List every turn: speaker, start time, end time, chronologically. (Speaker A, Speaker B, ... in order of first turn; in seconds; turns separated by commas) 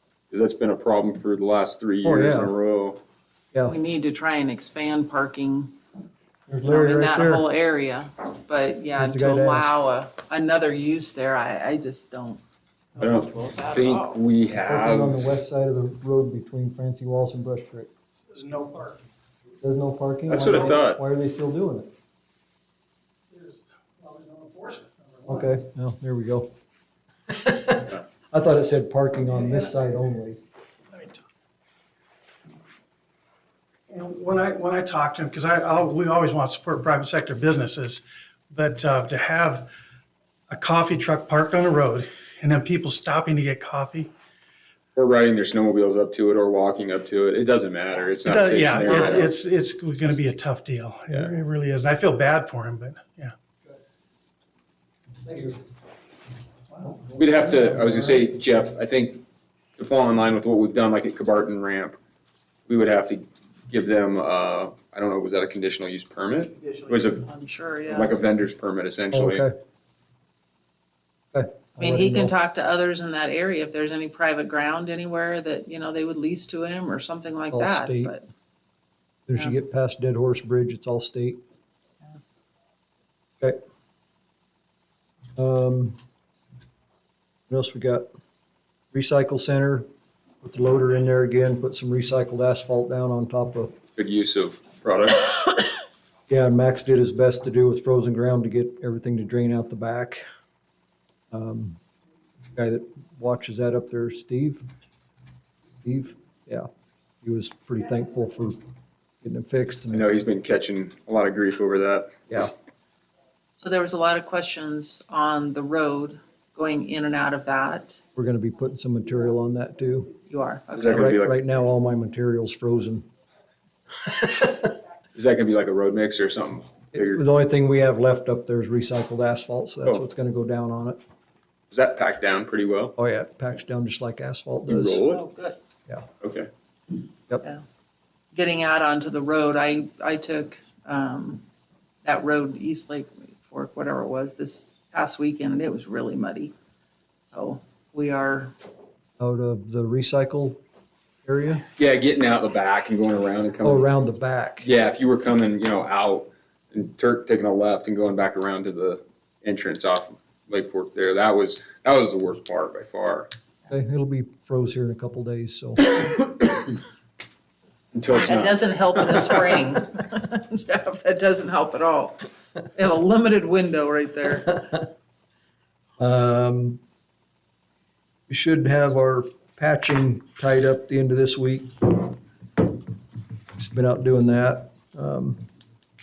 Speaker A: 0.3-3.0, Speaker B: 2.0-2.5, Speaker C: 3.7-5.7, Speaker B: 6.5-7.4, Speaker C: 6.6-12.4, Speaker B: 8.9-9.7, Speaker C: 12.9-14.2, Speaker A: 13.0-15.4, Speaker B: 14.7-17.9, Speaker D: 18.3-19.0, Speaker B: 19.6-21.9, Speaker A: 20.3-21.0, Speaker D: 23.3-25.4, Speaker B: 25.2-26.5, Speaker B: 27.3-30.4, Speaker D: 30.9-31.2, Speaker D: 33.9-39.7, Speaker D: 40.5-44.1, Speaker A: 44.9-49.3, Speaker D: 48.2-53.3, Speaker C: 48.8-49.3, Speaker B: 55.2-55.6, Speaker A: 57.1-59.2, Speaker A: 59.8-62.0, Speaker A: 62.7-67.2, Speaker C: 67.2-68.1, Speaker A: 67.9-69.5, Speaker B: 69.1-69.5, Speaker B: 71.3-72.3, Speaker C: 71.8-78.2, Speaker B: 77.5-78.1, Speaker B: 79.3-81.4, Speaker B: 85.4-86.0, Speaker B: 87.5-88.1, Speaker B: 88.9-89.9, Speaker B: 90.4-93.7, Speaker A: 94.0-95.6, Speaker B: 96.3-100.2, Speaker B: 101.3-101.8, Speaker B: 102.5-104.6, Speaker B: 105.8-106.7, Speaker B: 107.2-108.6, Speaker B: 109.2-110.0, Speaker A: 109.9-112.1, Speaker C: 113.6-118.0, Speaker B: 118.1-120.1, Speaker C: 120.3-121.0, Speaker A: 120.7-121.4, Speaker B: 120.9-123.0, Speaker B: 124.0-124.7, Speaker A: 125.1-127.2, Speaker B: 126.9-131.0, Speaker A: 131.7-132.9, Speaker B: 133.0-135.0, Speaker A: 134.7-135.2, Speaker C: 135.1-135.6, Speaker A: 136.2-136.5, Speaker C: 138.3-141.4, Speaker C: 142.0-146.5, Speaker C: 147.2-148.5, Speaker B: 149.2-150.6, Speaker B: 151.2-151.6, Speaker A: 151.8-154.0, Speaker B: 153.6-154.7, Speaker A: 154.6-163.3, Speaker B: 163.7-166.1, Speaker A: 167.9-169.5, Speaker C: 168.1-174.8, Speaker B: 176.0-176.8, Speaker B: 178.3-182.1, Speaker B: 183.6-185.4